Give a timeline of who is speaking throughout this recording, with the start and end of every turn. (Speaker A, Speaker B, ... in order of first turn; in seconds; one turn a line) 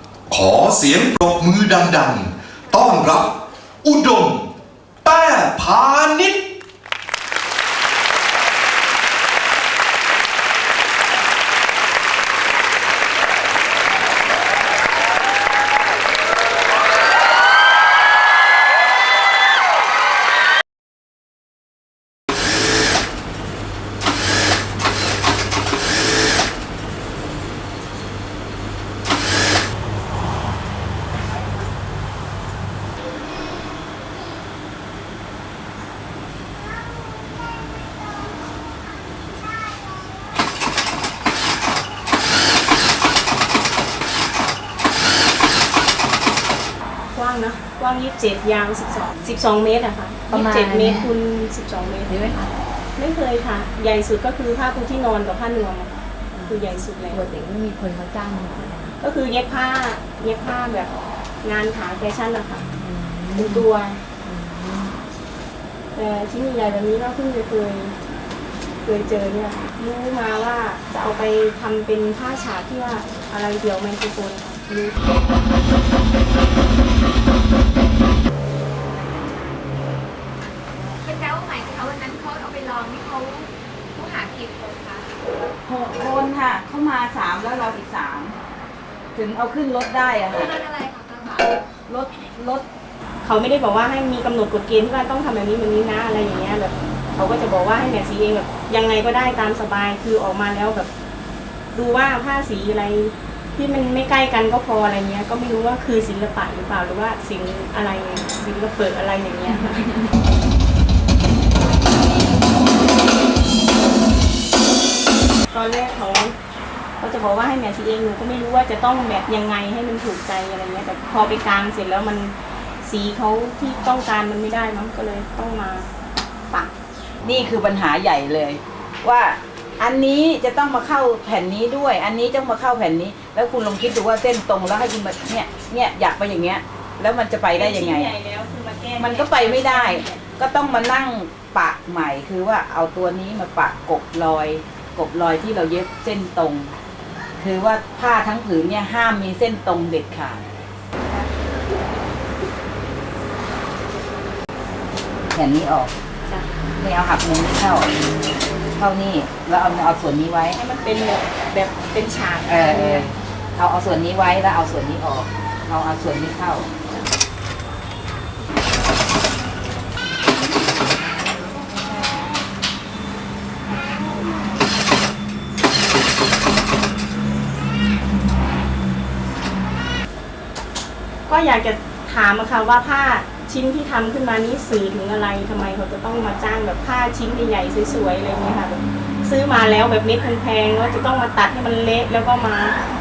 Speaker A: 0.3-3.3
Speaker A: 3.8-4.5
Speaker A: 5.0-6.4
Speaker B: 47.1-52.3
Speaker C: 50.3-51.1
Speaker C: 52.1-52.5
Speaker B: 53.0-55.9
Speaker C: 56.4-59.0
Speaker B: 56.5-57.3
Speaker B: 59.0-60.9
Speaker B: 61.4-62.6
Speaker C: 62.8-63.7
Speaker B: 63.4-64.0
Speaker C: 64.2-65.0
Speaker B: 66.0-67.9
Speaker B: 68.8-75.0
Speaker D: 81.0-85.1
Speaker E: 85.7-88.4
Speaker E: 89.2-90.5
Speaker D: 90.3-91.5
Speaker E: 91.9-92.7
Speaker B: 93.2-100.9
Speaker B: 101.7-109.9
Speaker B: 115.5-116.3
Speaker B: 117.0-125.9
Speaker E: 127.2-138.1
Speaker B: 137.5-140.2
Speaker E: 139.0-146.7
Speaker E: 147.4-150.4
Speaker E: 155.3-155.9
Speaker E: 156.8-157.9
Speaker E: 158.8-160.6
Speaker B: 160.6-163.1
Speaker E: 162.5-166.7
Speaker B: 181.3-192.8